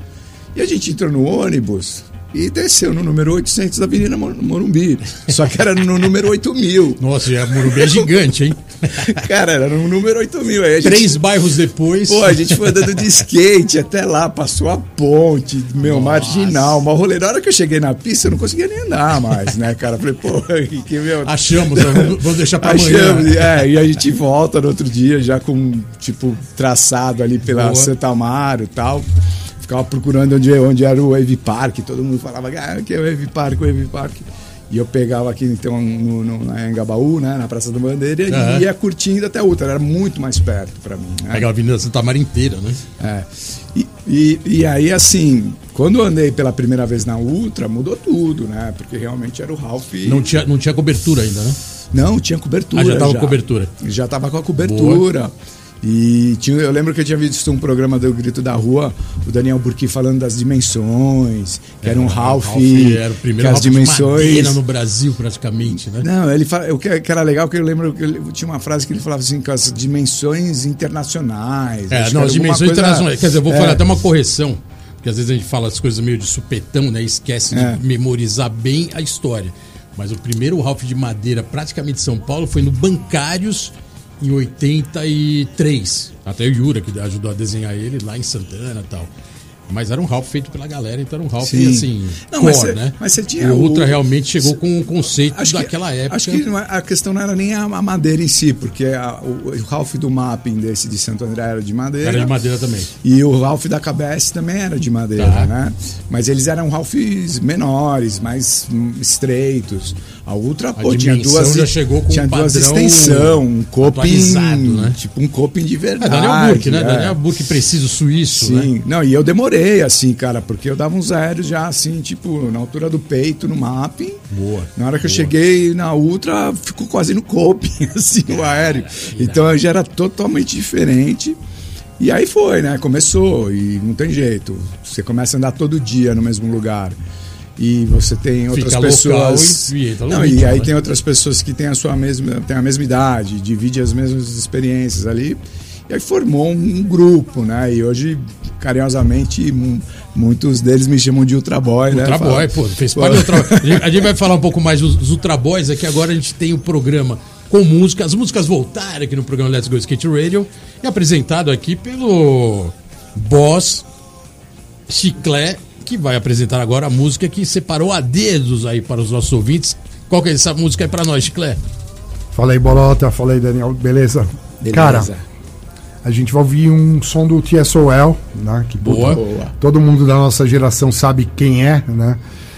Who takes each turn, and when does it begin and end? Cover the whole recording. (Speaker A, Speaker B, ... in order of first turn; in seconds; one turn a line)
Speaker A: 0.5-8.1
Speaker B: 7.0-9.1
Speaker A: 8.9-11.2
Speaker B: 10.8-13.0
Speaker A: 12.1-29.1
Speaker B: 15.8-16.8
Speaker B: 21.2-23.6
Speaker B: 27.5-27.9
Speaker A: 29.6-41.5
Speaker B: 38.3-38.6
Speaker B: 41.3-42.8
Speaker A: 43.0-50.4
Speaker B: 50.0-51.6
Speaker A: 51.9-64.6
Speaker B: 52.7-53.7
Speaker B: 54.6-55.0
Speaker B: 61.8-66.1
Speaker A: 65.9-73.9
Speaker B: 71.9-89.1
Speaker A: 77.5-77.8
Speaker B: 89.7-96.4
Speaker A: 91.4-94.5
Speaker A: 95.2-102.3
Speaker B: 102.0-102.9
Speaker A: 103.0-117.2
Speaker B: 105.2-105.5
Speaker B: 110.8-115.0
Speaker B: 116.0-118.7
Speaker A: 118.3-124.2
Speaker B: 124.3-125.3
Speaker A: 124.7-131.4
Speaker B: 128.9-129.5
Speaker A: 132.0-137.0
Speaker A: 137.6-154.1
Speaker B: 138.5-140.7
Speaker B: 151.9-163.8
Speaker B: 164.9-171.6
Speaker C: 172.3-175.1
Speaker A: 174.6-175.2
Speaker C: 176.0-182.2
Speaker B: 178.8-179.2
Speaker A: 178.8-179.5